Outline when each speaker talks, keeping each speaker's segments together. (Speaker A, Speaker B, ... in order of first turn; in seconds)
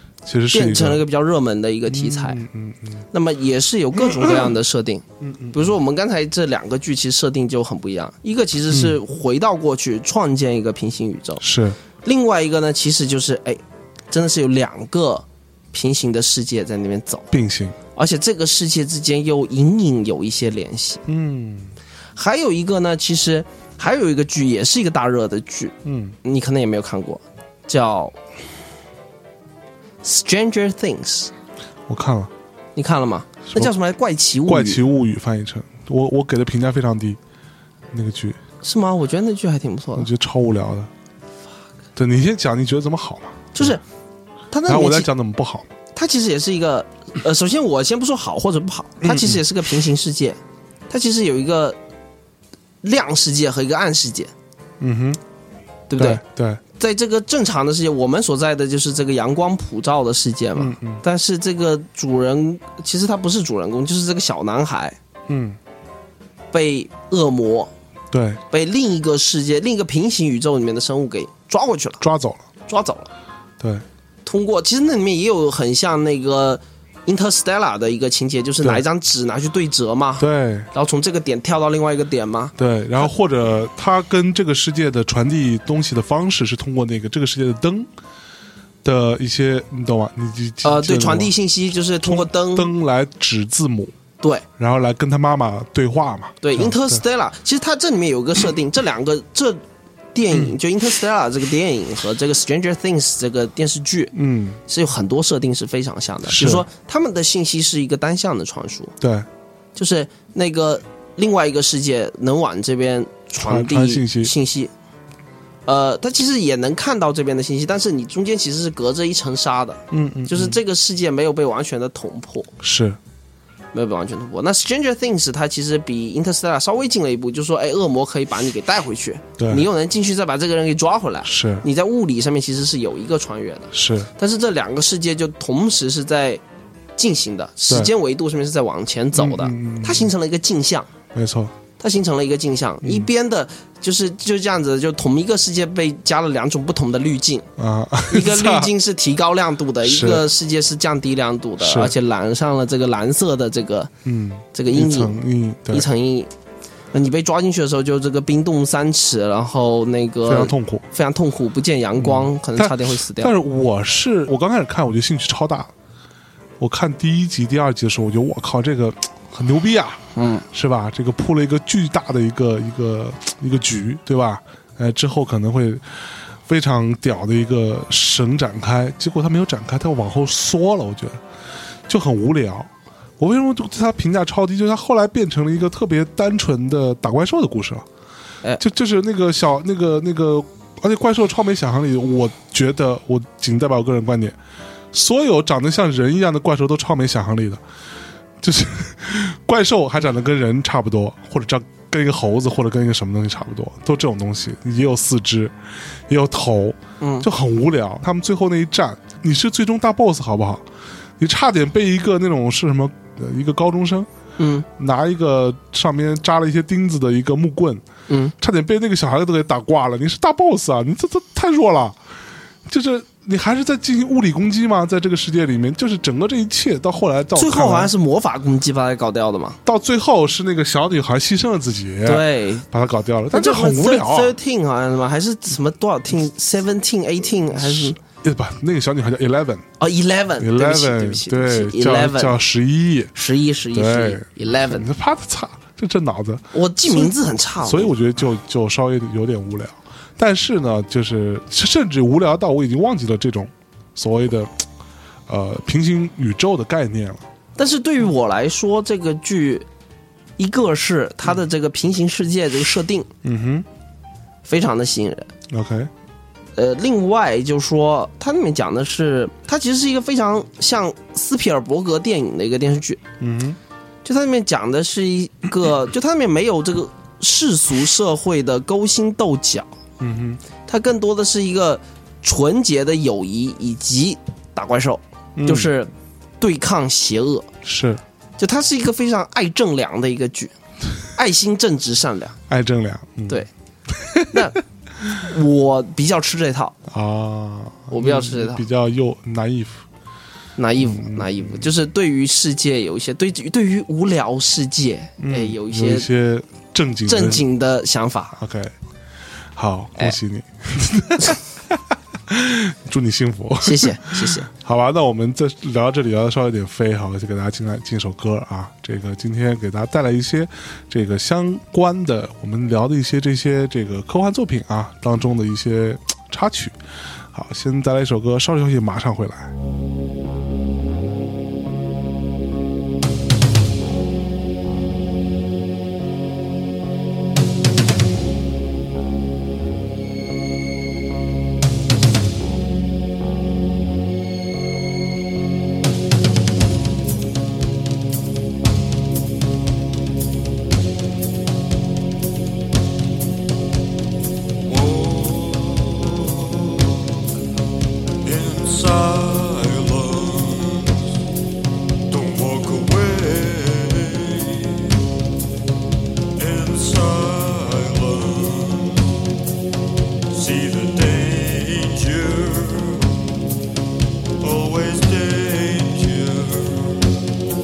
Speaker A: 0.2-1.0, 1.9-3.0, 5.2-5.7, 8.7-9.0, 11.4-11.8, 17.3-17.8, 21.1-21.7, 25.8-26.1, 31.9-32.3, 34.5-37.2, 37.9-38.4, 40.0-40.9, 41.9-43.7, 44.6-45.7, 49.0-49.4, 54.8-55.2, 56.0-56.6, 60.5-61.0, 65.3-65.6, 68.1-68.4, 72.0-72.4, 80.2-80.7, 82.6-87.9, 88.8-91.3, 92.0-93.9, 94.6-97.0, 104.1-104.6, 106.2-106.7, 109.0-109.3, 113.4-114.3, 119.9-120.6, 122.6-123.0, 129.4-129.7, 131.2-131.6, 133.7-134.1, 139.1-140.1, 141.1-141.5, 142.8-143.1, 147.6-148.7, 149.8-150.2, 151.6-151.9, 154.0-155.9, 160.2-160.8, 162.0-165.7, 166.6-181.2, 181.9-187.8, 188.6-194.3, 194.9-197.6, 198.4-210.6, 211.2-214.1, 214.8-217.8, 218.4-222.0, 222.7-227.9, 229.6-234.4, 237.5-239.6, 240.4-243.1, 243.7-254.6, 255.3-257.2, 263.2-263.6, 265.5-265.9, 273.2-273.6, 280.0-280.4, 285.4-285.7, 287.6-288.0, 292.5-294.4, 296.9-299.8, 300.8-301.7, 305.2-307.4, 308.3-308.7, 309.5-326.8, 327.3-329.5
Speaker B: 0.5-2.4, 3.1-11.4, 12.0-13.6, 14.1-17.3, 17.9-21.0, 22.1-28.1, 30.0-31.3, 32.8-34.8, 38.6-40.1, 43.5-43.8, 44.5-45.1, 45.9-50.4, 50.9-51.8, 52.8-54.3, 55.9-56.2, 56.8-65.0, 66.5-67.7, 68.5-72.0, 72.7-73.1, 74.2-83.0, 90.6-92.7, 94.2-94.5, 96.4-99.6, 100.1-104.1, 104.7-108.9, 109.7-114.7, 115.7-122.5, 123.7-136.4, 137.0-140.9, 141.8-147.5, 148.1-153.9, 154.5-155.2, 155.7-156.3, 156.9-163.3, 170.1-170.4, 207.0-207.3, 214.4-214.7, 218.1-218.3, 227.3-229.6, 232.0-232.7, 233.3-238.0, 239.8-242.4, 243.1-244.9, 246.5-247.9, 257.6-259.7, 260.4-263.1, 264.4-265.3, 266.6-273.0, 274.0-279.7, 280.7-287.5, 288.4-290.5, 291.1-292.4, 294.3-294.6, 295.1-296.8, 297.9-298.6, 300.6-306.1, 307.1-308.3, 313.6-314.5
Speaker C: 354.6-357.1, 358.2-361.2, 362.1-365.0, 366.4-369.3, 370.3-373.2, 374.4-377.1